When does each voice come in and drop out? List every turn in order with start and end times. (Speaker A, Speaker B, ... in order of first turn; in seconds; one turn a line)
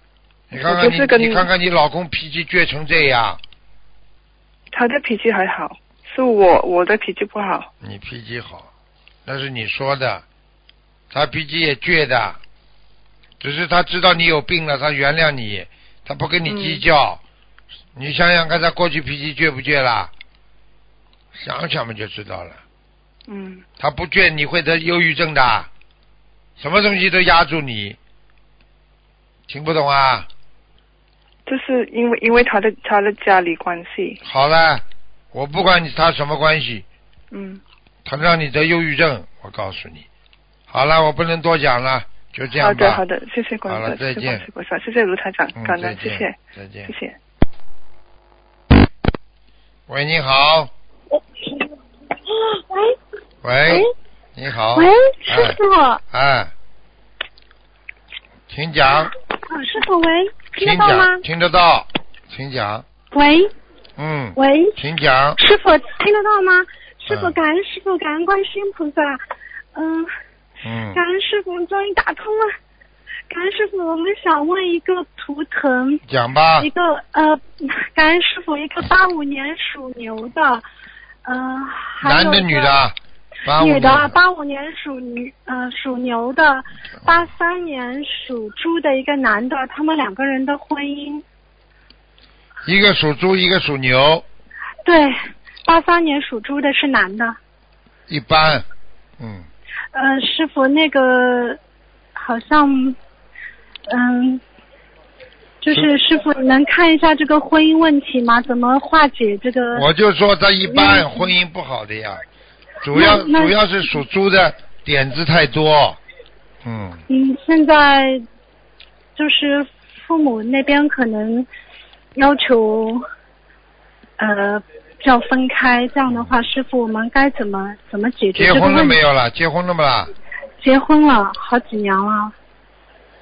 Speaker A: 0.5-3.4
Speaker B: 0.6-1.4
Speaker B: 4.7-7.7
Speaker A: 7.8-8.7
Speaker A: 9.2-10.2
Speaker A: 11.1-12.4
Speaker A: 13.4-17.2
Speaker B: 16.5-16.8
Speaker A: 17.9-20.1
Speaker A: 21.3-22.6
Speaker B: 23.3-23.6
Speaker A: 23.8-25.7
Speaker A: 26.6-28.0
Speaker A: 29.5-30.3
Speaker B: 31.5-34.2
Speaker A: 34.2-36.9
Speaker B: 37.3-37.6
Speaker A: 38.0-40.1
Speaker A: 40.7-43.0
Speaker B: 42.6-46.3
Speaker A: 43.7-44.5
Speaker A: 45.5-46.9
Speaker B: 46.9-47.1
Speaker A: 49.9-50.7
Speaker C: 52.5-53.0
Speaker A: 53.4-55.6
Speaker C: 54.7-56.0
Speaker A: 56.1-56.5
Speaker A: 58.5-59.1
Speaker C: 59.5-61.2
Speaker A: 60.6-62.8
Speaker C: 63.1-63.5
Speaker A: 64.0-65.4
Speaker C: 64.3-64.8
Speaker C: 65.4-69.2
Speaker A: 67.1-67.3
Speaker C: 69.7-70.1
Speaker A: 70.6-71.0
Speaker C: 70.9-72.5
Speaker C: 73.3-76.0
Speaker A: 76.0-76.7
Speaker C: 76.6-80.6
Speaker C: 81.2-82.7
Speaker A: 82.0-84.1
Speaker C: 83.6-91.2
Speaker A: 92.6-94.2
Speaker C: 94.8-97.4
Speaker A: 98.1-98.6
Speaker A: 99.2-99.5
Speaker C: 99.9-101.6
Speaker C: 102.2-103.0
Speaker C: 103.9-104.4
Speaker C: 105.6-109.8
Speaker A: 109.7-112.2
Speaker C: 110.7-111.2
Speaker A: 112.8-116.0
Speaker C: 112.9-113.5
Speaker A: 116.6-117.0
Speaker C: 117.1-118.2
Speaker C: 119.2-121.5
Speaker C: 122.1-123.0
Speaker C: 124.2-129.0
Speaker A: 126.1-126.4
Speaker A: 128.3-130.1
Speaker C: 130.6-132.3